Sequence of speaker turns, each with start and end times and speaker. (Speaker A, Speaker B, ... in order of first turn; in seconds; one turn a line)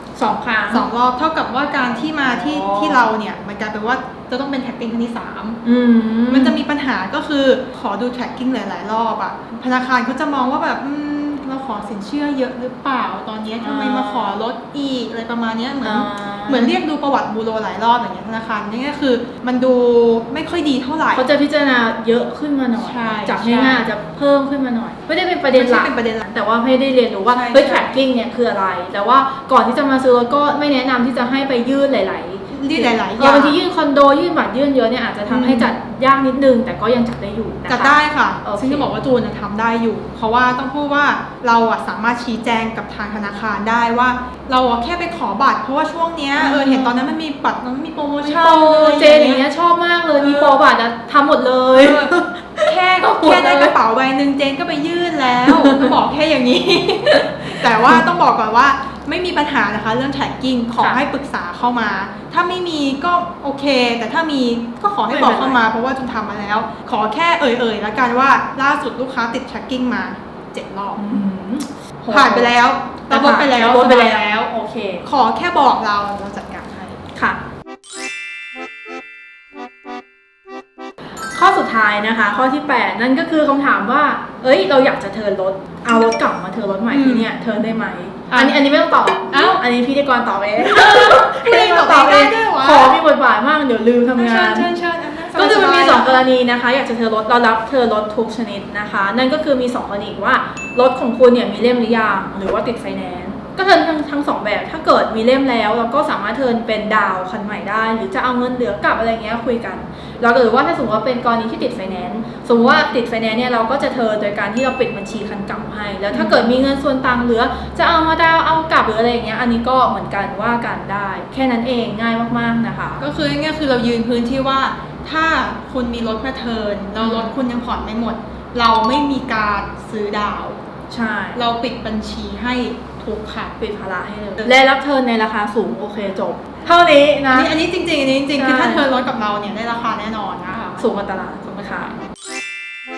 Speaker A: 0.1-0.9
Speaker B: 0.7-5.6
Speaker A: 2.3-3.0
Speaker A: 5.6-6.6
Speaker B: 6.3-21.2
Speaker A: 13.6-14.4
Speaker A: 15.8-16.7
Speaker A: 21.1-38.9
Speaker B: 22.8-23.9
Speaker B: 25.5-26.3
Speaker B: 27.3-27.9
Speaker B: 32.5-33.6
Speaker B: 35.3-35.7
Speaker B: 37.7-49.4
Speaker A: 46.4-47.1
Speaker A: 48.2-53.8
Speaker B: 50.2-50.6
Speaker B: 51.7-52.1
Speaker B: 52.6-71.0
Speaker A: 55.5-55.9
Speaker A: 57.4-58.0
Speaker A: 60.8-61.0
Speaker A: 65.1-65.6
Speaker A: 71.0-72.5
Speaker B: 72.1-74.5
Speaker A: 73.1-75.0
Speaker B: 75.0-77.0
Speaker A: 81.3-94.7
Speaker B: 86.9-87.3
Speaker B: 88.3-88.6
Speaker B: 89.3-89.6
Speaker B: 90.6-93.0
Speaker B: 94.1-96.2
Speaker A: 95.3-123.0
Speaker B: 116.1-116.5
Speaker B: 123.0-130.6
Speaker A: 127.0-127.3
Speaker A: 130.9-131.4
Speaker B: 131.3-133.5
Speaker A: 133.6-137.5
Speaker B: 137.3-141.9
Speaker A: 138.3-138.8
Speaker A: 140.8-141.9